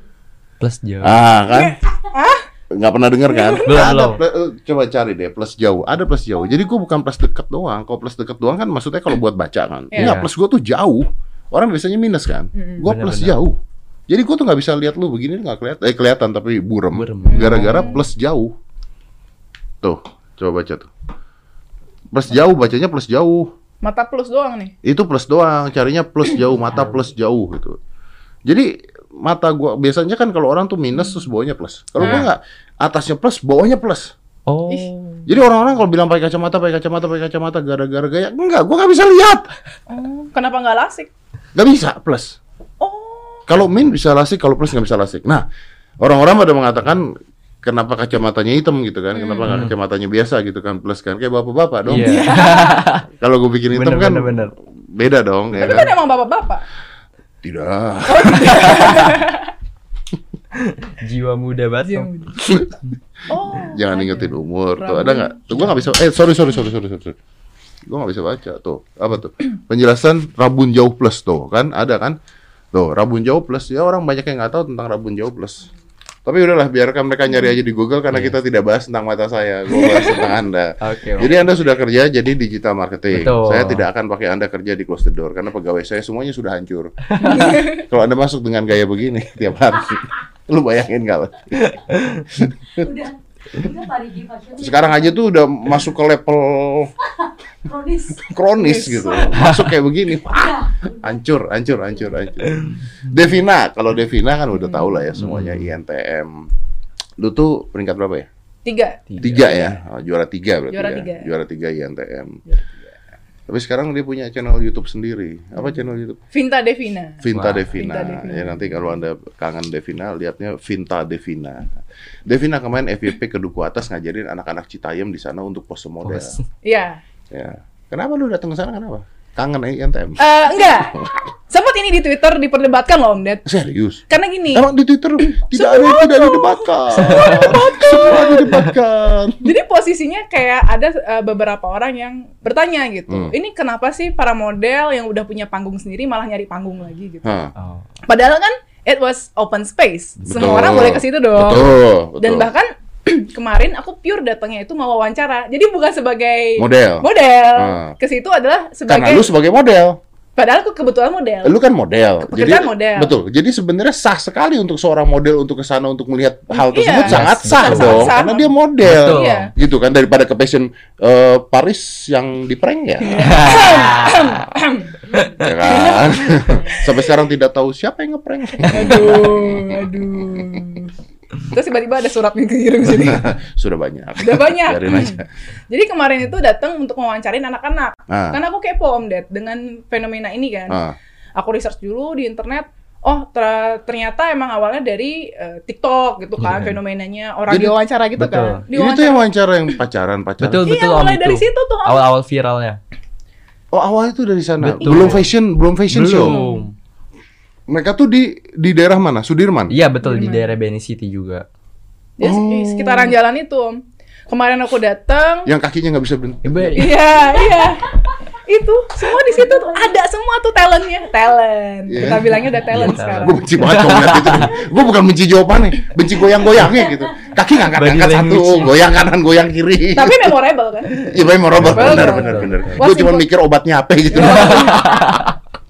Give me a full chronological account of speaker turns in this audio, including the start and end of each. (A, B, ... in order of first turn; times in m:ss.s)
0:00.6-0:01.2 A
0:01.0-0:01.8 B
0:01.5-0:02.4 C
0:02.7-0:13.6 B
0:03.3-0:03.7 C
0:03.6-0:04.2 A
0:09.9-0:10.2 C
0:10.0-0:10.3 A
0:12.6-0:12.9 C
0:12.8-0:13.4 A
0:14.1-0:18.5 B
0:16.9-0:17.9 A
0:17.3-0:18.0 C
0:19.8-0:20.9 B
0:22.1-0:23.5 B
0:23.8-0:24.7 C
0:24.8-0:27.8 B
0:26.7-0:27.0 A
0:28.5-0:34.1 B
0:32.0-0:32.3 A
0:32.0-0:32.3 C
0:34.5-0:34.9 A
0:34.7-0:35.3 C
0:35.3-0:39.5 B
0:39.9-0:41.1 C
0:41.6-0:42.4 B
0:42.8-0:43.4 C
0:43.5-0:45.4 B
0:46.0-0:47.1 B
0:47.6-0:52.2 B
0:49.1-0:49.5 C
0:49.5-0:49.7 A
0:51.9-0:53.0 A
0:52.0-0:52.8 C
0:53.1-0:55.9 B
0:53.7-0:54.5 A
0:55.6-0:56.6 C
0:57.4-0:59.1 B
0:58.1-0:59.5 C
0:58.4-0:58.8 A
1:00.6-1:02.6 A
1:01.8-1:02.3 C
1:03.3-1:05.8 C
1:03.5-1:07.2 B
1:07.9-1:12.2 B
1:12.7-1:15.7 B
1:16.3-1:32.9 B
1:18.1-1:18.4 A
1:19.7-1:20.3 C
1:20.8-1:21.4 A
1:23.1-1:23.8 A
1:27.1-1:27.6 A
1:27.2-1:27.8 C
1:31.6-1:32.2 A
1:32.8-1:35.2 D
1:34.6-1:36.9 B
1:37.0-1:39.3 D
1:38.2-1:46.3 B
1:38.6-1:39.4 C
1:39.4-1:39.7 A
1:40.2-1:42.6 D
1:44.6-1:44.9 C
1:45.1-1:45.7 A
1:47.2-1:48.3 B
1:48.6-1:49.7 C
1:49.1-1:49.5 A
1:49.2-1:52.4 B
1:50.7-1:51.3 C
1:52.5-1:52.8 C
1:53.5-1:56.2 B
1:56.3-1:57.2 C
1:57.2-2:06.4 B
1:57.3-1:57.8 A
1:57.7-1:58.6 C
2:06.0-2:06.4 A
2:06.6-2:07.0 C
2:07.3-2:11.2 B
2:10.2-2:13.4 C
2:13.5-2:19.5 B
2:14.1-2:14.7 C
2:15.2-2:18.6 C
2:17.0-2:18.7 A
2:19.4-2:27.4 C
2:27.2-2:27.5 B
2:27.6-2:27.9 A
2:28.1-2:39.3 C
2:30.2-2:30.9 A
2:30.3-2:32.5 B
2:36.6-2:37.9 B
2:38.9-2:40.0 B
2:40.4-2:41.6 C
2:41.4-2:53.6 B
2:42.2-2:43.1 C
2:46.5-2:49.5 C
2:47.0-2:48.2 A
2:48.8-2:49.4 A
2:53.0-2:55.0 C
2:53.2-2:54.4 A
2:55.1-2:55.9 A
2:55.4-3:00.5 B
2:55.6-2:57.0 C
2:58.6-3:01.0 C
3:01.5-3:03.3 C
3:02.9-3:05.3 B
3:04.2-3:10.8 C
3:08.1-3:08.4 B
3:10.7-3:11.0 B
3:11.4-3:19.2 C
3:16.4-3:16.8 A
3:17.5-3:17.8 B
3:18.2-3:18.6 A
3:18.7-3:20.7 B
3:20.4-3:22.8 A
3:20.6-3:22.1 C
3:23.7-3:26.4 B
3:24.6-3:25.3 A
3:24.8-3:25.2 C
3:25.9-3:26.7 A
3:26.2-3:26.7 C
3:27.7-3:29.8 B
3:29.7-3:31.4 A
3:30.0-3:30.5 C
3:32.2-3:35.5 C
3:32.2-3:33.2 B
3:35.5-3:36.9 B
3:36.4-3:37.0 A
3:36.8-3:43.4 C
3:37.4-3:37.6 D
3:39.2-3:39.9 D
3:41.9-3:50.3 B
3:42.6-3:44.5 A
3:46.6-3:47.3 D
3:47.7-3:48.7 A
3:49.9-3:51.1 C
3:51.0-3:52.9 A
3:51.1-3:55.3 B
3:51.6-3:53.3 C
3:54.1-3:55.2 C
3:54.2-3:55.3 A